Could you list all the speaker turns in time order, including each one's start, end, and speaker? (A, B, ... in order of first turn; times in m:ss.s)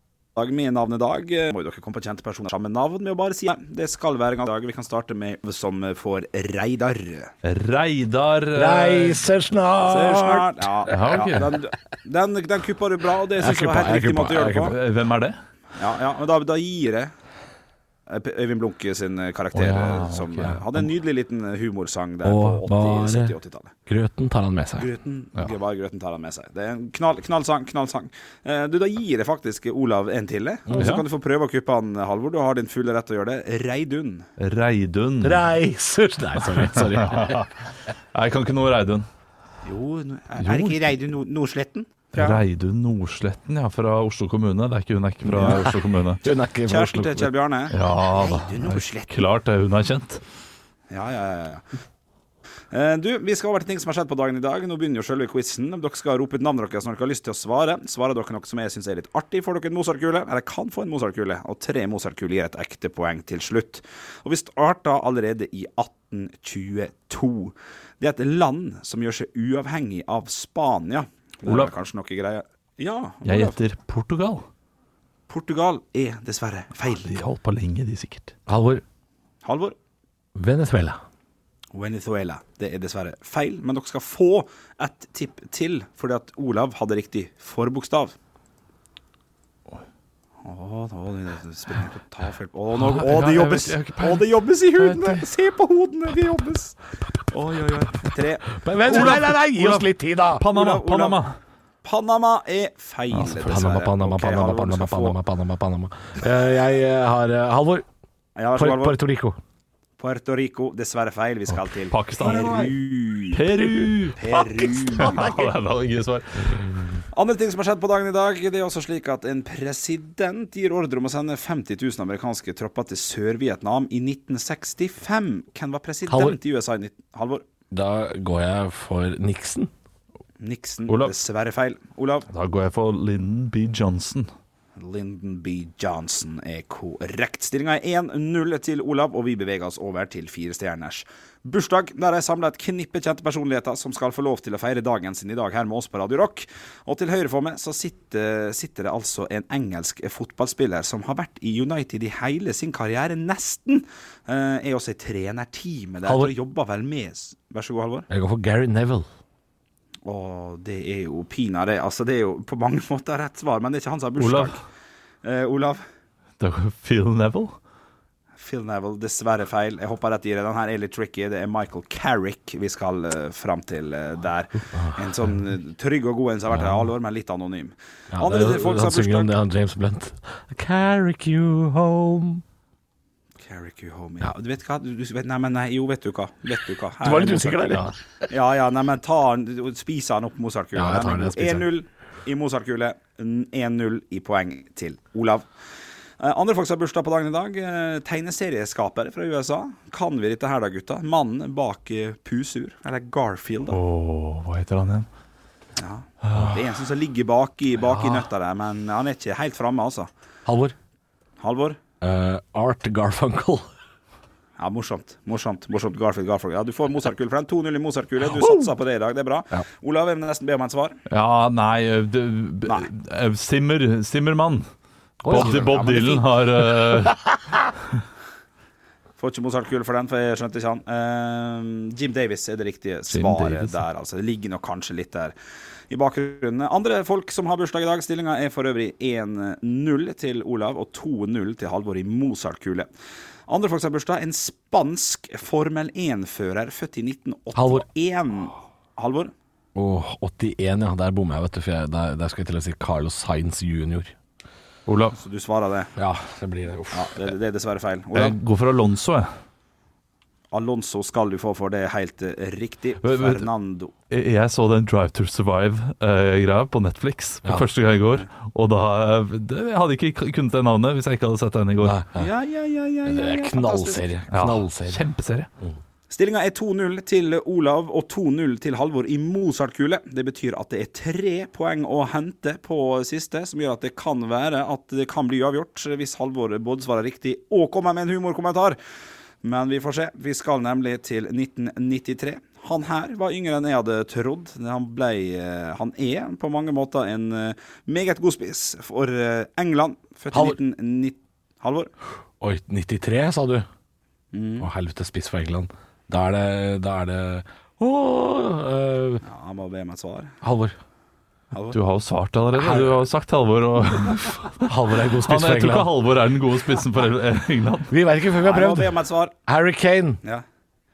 0:00.4-0:07.3 A
0:07.4-0:09.2 B
0:08.6-0:10.7 C
0:09.9-0:14.8 A
0:10.9-0:11.5 B
0:13.4-0:14.7 C
0:14.6-0:15.4 B
0:15.8-0:17.1 A
0:18.1-0:23.7 A
0:19.5-0:20.6 B
0:22.2-0:23.3 C
0:23.9-0:24.9 C
0:24.8-0:34.2 A
0:30.7-0:31.0 C
0:30.8-0:31.0 B
0:34.4-0:35.5 B
0:35.2-0:37.5 C
0:37.0-0:37.5 B
0:38.1-0:39.1 B
0:39.6-0:42.4 A
0:40.4-0:40.8 B
0:42.1-0:46.2 B
0:45.3-0:45.6 A
0:45.4-0:45.7 C
0:46.2-0:47.3 C
0:46.7-0:49.1 A
0:47.7-0:50.2 B
0:50.9-0:51.6 A
0:52.7-1:13.6 A
1:11.4-1:11.7 B
1:13.2-1:14.4 B
1:15.3-1:17.2 A
1:17.0-1:18.3 B
1:18.5-1:18.8 C
1:19.4-1:19.8 A
1:20.4-1:21.0 C
1:21.7-1:28.2 A
1:30.4-1:36.8 A
1:32.7-1:35.3 B
1:37.3-1:39.4 A
1:38.6-1:40.4 C
1:38.9-1:41.4 B
1:40.4-1:41.2 A
1:41.8-1:45.2 A
1:43.2-1:43.6 B
1:43.4-1:47.8 C
1:48.4-1:49.0 A
1:48.6-1:49.4 C
1:50.0-1:55.5 A
1:51.5-1:52.8 B
1:53.3-1:56.9 B
1:54.7-1:55.4 C
1:57.1-2:07.4 A
2:06.1-2:06.4 C
2:07.7-2:09.7 C
2:10.4-2:12.3 A
2:10.9-2:11.2 B
2:12.3-2:14.3 B
2:14.8-2:38.1 A
2:36.0-2:36.3 C
2:38.1-2:39.1 C
2:40.1-2:44.6 A
2:44.2-2:44.6 B
2:45.2-2:45.8 A
2:46.4-2:47.6 B
2:48.4-2:59.3 A
2:54.7-2:55.0 C
2:58.1-3:02.4 C
3:03.4-3:15.5 A
3:07.0-3:08.0 C
3:10.7-3:11.7 C
3:16.2-3:23.8 A
3:23.7-3:25.1 B
3:25.8-3:30.1 A
3:26.2-3:26.6 B
3:27.8-3:28.3 B
3:30.5-3:30.8 C
3:31.4-3:31.8 A
3:32.0-3:33.7 C
3:34.6-3:41.0 A
3:41.1-3:44.7 B
3:45.2-3:46.0 C
3:45.3-3:47.2 B
3:45.3-3:46.3 A
3:46.7-3:47.6 C
3:49.2-3:55.3 A
3:53.1-3:53.8 B
3:55.9-4:02.9 A
4:03.5-4:09.3 A
4:07.6-4:07.9 C
4:09.8-4:14.1 C
4:14.9-4:15.2 B
4:15.1-4:15.9 A
4:16.0-4:17.3 C
4:16.9-4:18.4 A
4:18.1-4:19.3 B
4:20.5-4:23.9 A
4:23.0-4:23.5 B
4:24.1-4:32.0 B
4:31.8-4:32.3 C
4:32.2-4:34.1 A
4:33.0-4:35.0 C
4:34.3-4:35.5 B
4:36.1-4:48.8 A
4:49.4-5:01.9 A
5:00.3-5:00.6 C
5:02.4-5:03.7 C
5:04.3-5:04.7 A
5:04.6-5:09.2 C
5:09.2-5:10.4 A
5:10.4-5:10.8 C
5:11.5-5:11.8 A
5:11.7-5:17.9 B
5:12.6-5:13.0 C
5:14.6-5:15.9 C
5:17.9-5:18.9 C
5:18.4-5:19.4 A
5:19.5-5:20.2 C